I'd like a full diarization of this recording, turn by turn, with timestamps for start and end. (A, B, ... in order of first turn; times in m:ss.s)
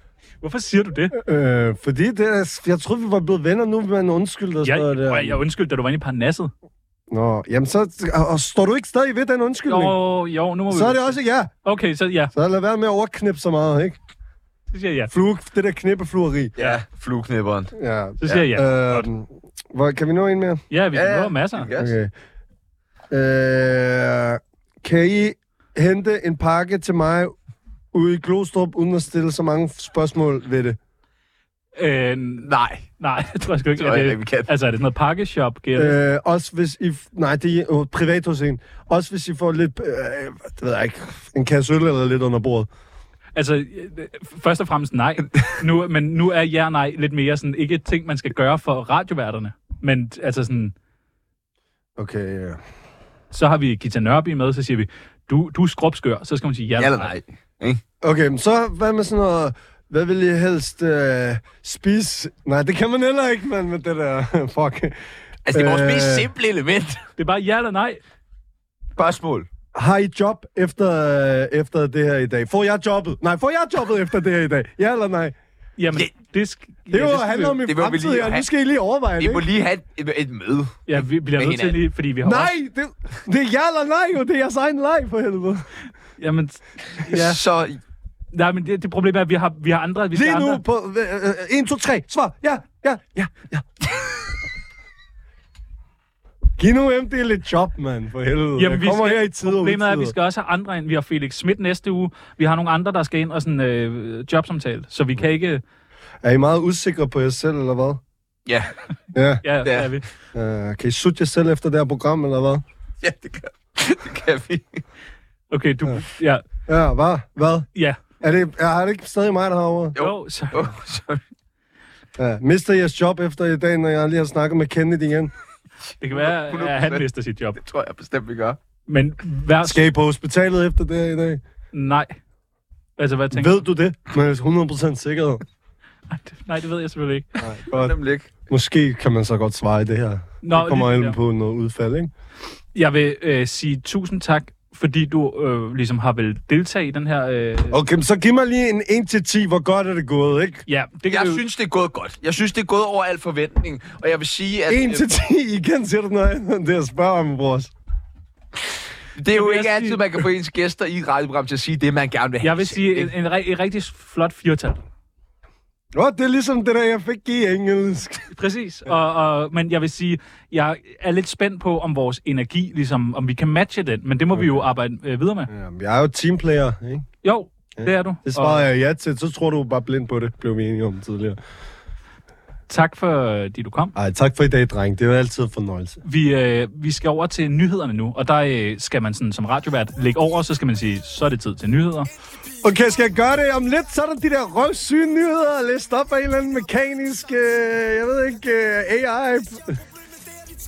0:00.4-0:01.2 A
0:01.1-0:05.4 B
0:04.6-0:06.5 A
0:07.1-0:10.0 B
0:09.7-0:12.3 A
0:10.7-0:11.5 B
0:12.3-0:14.0 B
0:14.7-0:15.1 A
0:15.1-0:16.6 B
0:16.6-0:17.7 C
0:17.8-0:20.6 B
0:18.2-0:19.1 A
0:20.7-0:21.7 A
0:20.9-0:22.0 C
0:21.7-0:22.1 B
0:23.1-0:27.3 B
0:27.9-0:30.8 B
0:31.8-0:36.0 A
0:32.4-0:32.9 C
0:33.8-0:34.5 C
0:35.8-0:42.7 B
0:43.4-0:50.7 A
0:52.0-0:52.6 B
0:53.3-0:57.1 A
0:56.8-0:57.8 C
0:58.0-1:05.0 B
1:05.5-1:07.1 C
1:05.5-1:06.3 B
1:07.2-1:08.0 A
1:09.0-1:09.5 C
1:09.8-1:15.4 B
1:15.8-1:17.6 A
1:16.9-1:19.5 B
1:17.6-1:18.5 C
1:19.2-1:21.8 C
1:20.9-1:22.5 A
1:22.2-1:25.7 B
1:26.2-1:27.4 A
1:27.0-1:27.8 C
1:28.3-1:30.6 A
1:30.1-1:33.7 B
1:36.6-1:40.2 B
1:38.6-1:45.6 A
1:46.2-1:48.0 B
1:48.5-1:48.7 C
1:49.1-1:49.4 B
1:49.4-1:50.1 A
1:49.6-1:49.9 C
1:50.3-1:52.6 B
1:53.0-1:54.8 C
1:55.5-1:56.4 A
1:56.7-1:57.7 B
1:58.2-2:00.0 B
2:00.0-2:01.2 C
2:00.0-2:00.7 A
2:02.2-2:05.3 B
2:06.0-2:07.6 A
2:06.1-2:08.6 C
2:08.9-2:09.9 A
2:09.6-2:11.4 B
2:11.7-2:12.2 A
2:13.0-2:13.6 A
2:13.3-2:15.4 B
2:16.1-2:17.3 A
2:17.4-2:17.9 B
2:17.7-2:18.3 C
2:18.5-2:22.1 B
2:20.4-2:21.2 A
2:22.8-2:27.8 A
2:27.7-2:30.6 B
2:30.7-2:31.4 A
2:31.1-2:35.1 C
2:34.7-2:37.7 B
2:39.2-2:43.1 C
2:39.3-2:40.0 A
2:42.4-2:44.8 A
2:45.9-2:48.3 B
2:48.3-2:55.5 A
2:54.4-2:54.6 B
2:55.5-2:57.1 B
2:57.2-2:58.7 A
2:57.8-3:01.4 B
3:02.7-3:03.9 A
3:04.0-3:06.0 B
3:06.0-3:12.1 A
3:12.6-3:19.8 B